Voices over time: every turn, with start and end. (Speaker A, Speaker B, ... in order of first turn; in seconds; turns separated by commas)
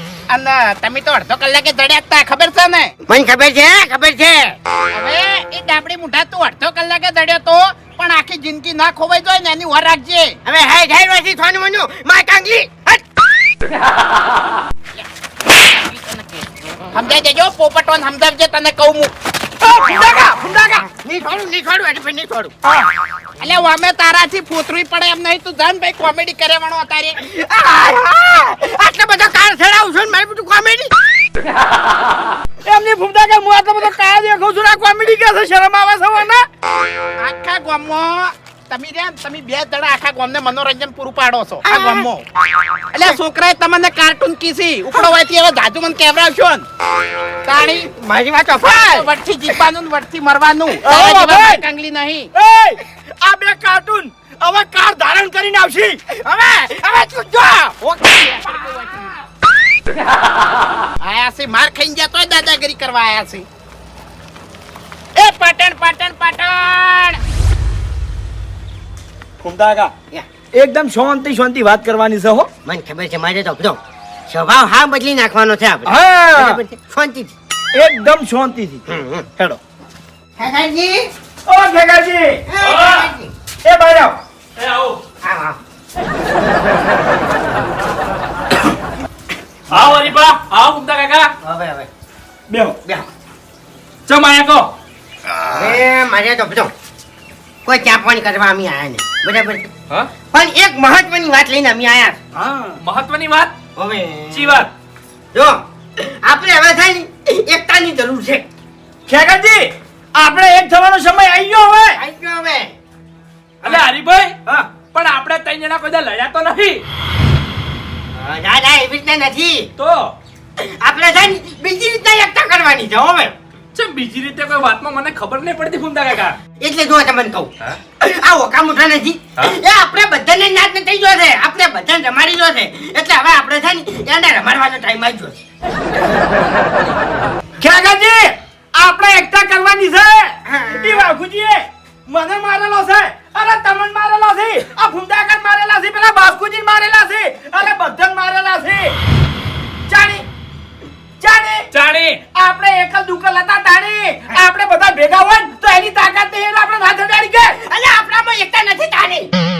Speaker A: 0.3-2.9, Speaker B: 3.1-4.5, Speaker A: 4.9-10.4, Speaker B: 10.4-13.2, Speaker A: 14.9-19.1, Speaker C: 19.6-20.8, Speaker B: 20.8-22.5, Speaker A: 23.4-27.2, Speaker B: 27.2-30.9, Speaker C: 32.6-36.5, Speaker A: 37.2-42.2, Speaker B: 41.6-42.1, Speaker A: 42.9-46.6, Speaker A: 47.4-47.9, Speaker B: 47.6-49.1, Speaker A: 48.6-52.3, Speaker C: 50.8-51.6, Speaker C: 52.3-56.0, Speaker A: 56.2-57.5, Speaker B: 56.7-59.0, Speaker A: 58.0-59.1, Speaker A: 61.0-63.5, Speaker A: 65.1-67.2, Speaker C: 69.4-69.9, Speaker C: 70.5-72.5, Speaker B: 72.6-77.3, Speaker C: 75.8-76.6, Speaker C: 77.7-78.8, Speaker B: 78.9-79.3, Speaker B: 80.4-81.1, Speaker C: 81.5-82.4, Speaker B: 82.5-83.3, Speaker D: 82.6-83.1, Speaker C: 83.6-84.2, Speaker D: 84.6-85.0, Speaker B: 85.2-85.6, Speaker D: 89.7-91.3, Speaker B: 91.4-91.9, Speaker D: 92.5-92.7, Speaker D: 94.1-94.7, Speaker B: 95.5-96.7, Speaker B: 97.6-99.7, Speaker B: 100.3-102.2, Speaker D: 102.8-103.5, Speaker B: 103.8-104.7, Speaker D: 104.3-104.7, Speaker B: 105.3-108.5, Speaker C: 109.1-112.0, Speaker B: 111.9-112.8, Speaker D: 113.6-116.8, Speaker B: 118.1-119.7, Speaker D: 119.8-120.1, Speaker B: 120.6-123.3, Speaker D: 123.7-126.4, Speaker B: 126.6-135.4, Speaker C: 137.6-148.9, Speaker B: 140.5-141.1, Speaker C: 149.9-150.2, Speaker C: 151.2-151.7, Speaker D: 151.7-152.3, Speaker C: 152.3-157.5, Speaker B: 157.6-159.3